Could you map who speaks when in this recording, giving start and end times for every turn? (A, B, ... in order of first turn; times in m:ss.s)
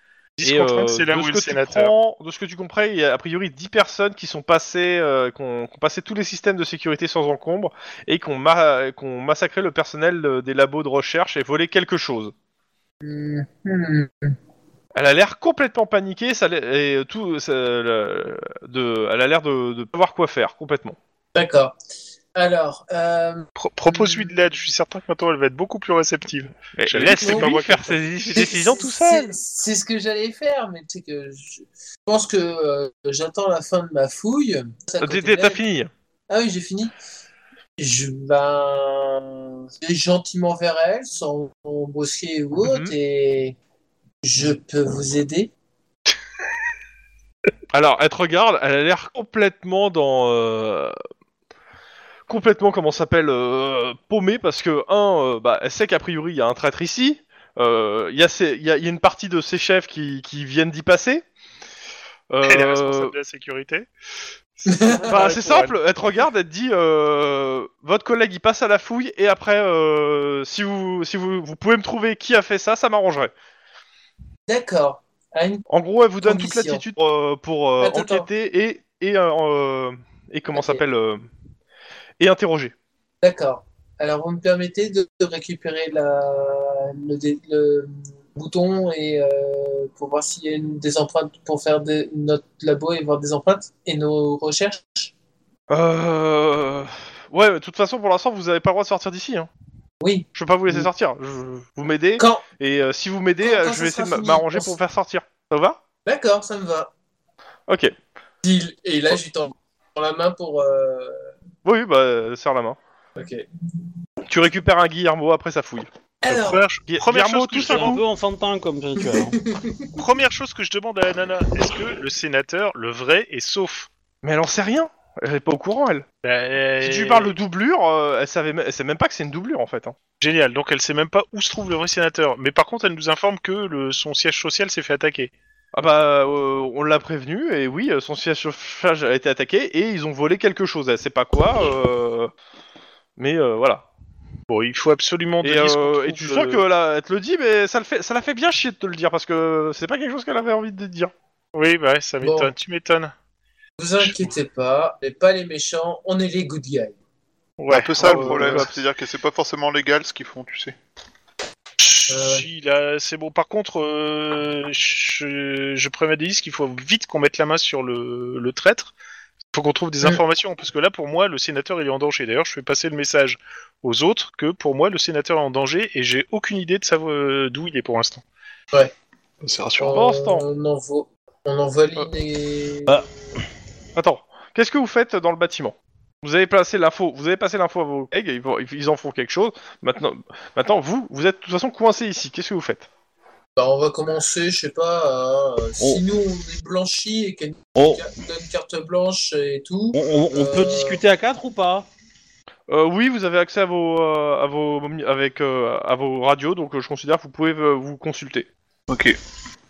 0:00.4-0:01.9 A
0:00.4-0:12.3 B
0:13.0-0:14.4 C
0:15.0-0:21.0 B
0:21.4-0:21.8 C
0:22.4-0:24.3 C
0:23.6-0:28.0 A
0:26.8-0:29.4 B
0:27.1-0:27.6 C
0:28.3-0:35.6 C
0:35.0-0:35.9 B
0:36.3-0:36.9 C
0:37.8-0:43.6 C
0:42.6-0:43.0 B
0:44.2-0:45.5 C
0:47.7-0:50.9 B
0:52.3-1:01.2 B
1:02.3-1:03.1 B
1:02.4-1:03.9 A
1:04.6-1:05.8 A
1:04.7-1:05.3 C
1:05.1-1:13.3 B
1:14.5-1:15.6 C
1:15.7-1:21.2 B
1:16.2-1:16.8 C
1:17.8-1:18.3 C
1:20.5-1:20.8 C
1:22.2-1:22.7 B
1:23.2-1:35.1 C
1:35.7-1:39.5 B
1:40.0-1:40.9 C
1:40.4-1:45.8 B
1:42.2-1:42.4 C
1:43.4-1:44.8 C
1:46.1-1:46.9 C
1:47.7-1:47.9 B
1:48.4-1:51.3 C
1:51.6-1:52.8 B
1:53.2-1:53.4 C
1:54.3-1:55.9 B
1:56.2-1:56.6 C
1:56.3-1:58.0 A
1:56.9-1:58.0 B
1:57.6-1:59.4 D
1:59.0-2:00.0 C
2:00.0-2:03.9 A
2:04.2-2:06.0 B
2:06.2-2:07.4 A
2:06.8-2:10.0 B
2:10.2-2:15.3 A
2:15.7-2:22.3 B
2:23.2-2:23.8 B
2:24.5-2:26.6 A
2:25.4-2:31.1 B
2:31.5-2:33.1 A
2:32.2-2:32.5 C
2:33.8-2:37.0 C
2:34.0-2:34.3 A
2:37.6-2:38.7 A
2:37.7-2:40.8 E
2:38.0-2:38.5 C
2:38.4-2:38.7 B
2:41.8-2:48.9 A
2:42.1-2:42.5 C
2:49.5-2:58.2 A
2:59.4-3:00.0 E
2:59.8-3:03.0 C
2:59.8-3:00.5 B
3:04.0-3:12.9 B
3:13.6-3:21.0 C
3:17.8-3:18.1 D
3:19.9-3:21.9 D
3:22.7-3:28.5 B
3:28.9-3:29.2 E